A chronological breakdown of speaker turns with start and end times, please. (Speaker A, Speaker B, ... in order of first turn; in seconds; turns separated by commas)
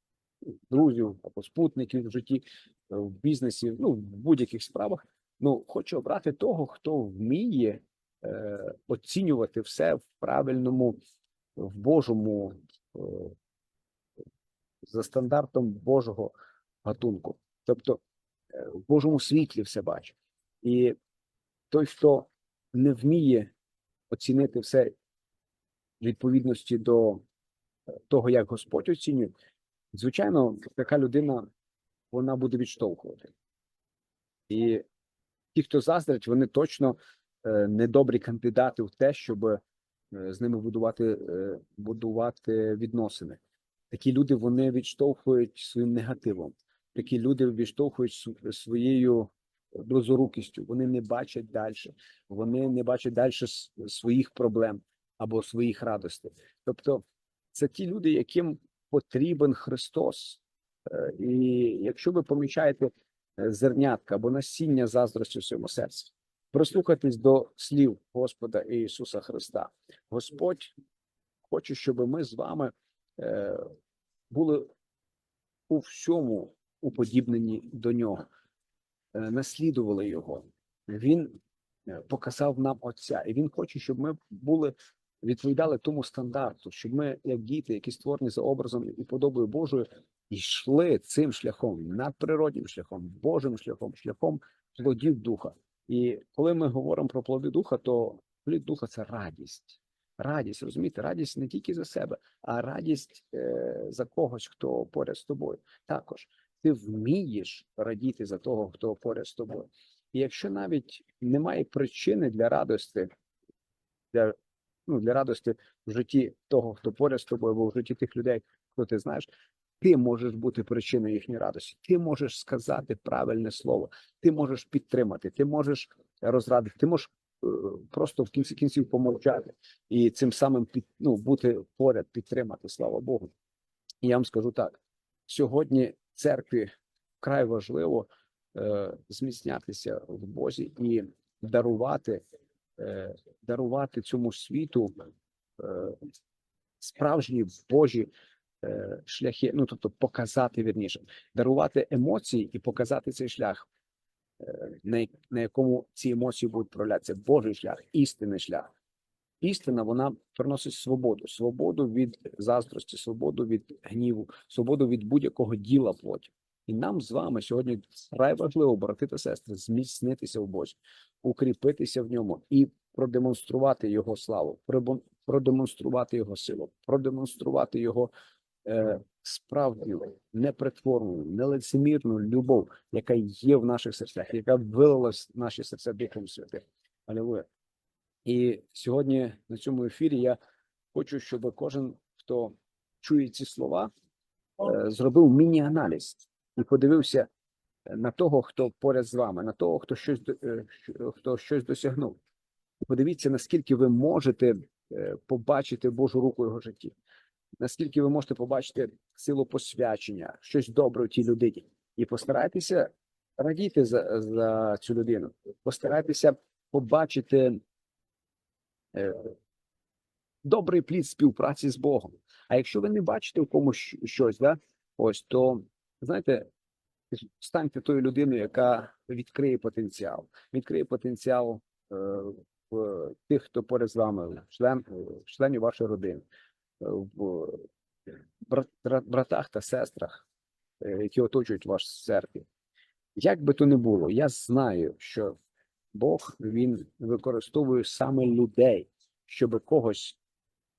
Speaker A: 0.7-11.0, Speaker A: 11.6-13.4, Speaker A: 14.9-18.0, Speaker A: 18.5-21.0, Speaker A: 21.7-23.5, Speaker A: 24.1-24.9, Speaker A: 26.0-27.2, Speaker A: 28.1-29.3, Speaker A: 29.9-31.5, Speaker A: 32.1-33.3, Speaker A: 34.5-34.8, Speaker A: 35.5-43.4, Speaker A: 43.9-70.7, Speaker A: 71.5-73.7, Speaker A: 74.3-74.7, Speaker A: 75.7-78.3, Speaker A: 79.1-113.1, Speaker A: 114.1-119.3, Speaker A: 119.8-133.3, Speaker A: 134.0-142.2, Speaker A: 142.8-145.0, Speaker A: 145.6-146.1, Speaker A: 146.8-148.1, Speaker A: 148.6-153.7, Speaker A: 154.4-158.7, Speaker A: 159.4-178.1, Speaker A: 178.6-187.5, Speaker A: 188.2-190.4, Speaker A: 190.9-193.9, Speaker A: 194.6-197.3, Speaker A: 197.9-202.2, Speaker A: 202.8-206.9, Speaker A: 207.6-217.6, Speaker A: 218.9-219.3, Speaker A: 220.4-226.5, Speaker A: 227.1-236.2, Speaker A: 236.8-240.3, Speaker A: 240.8-242.5, Speaker A: 243.2-245.3, Speaker A: 245.9-250.2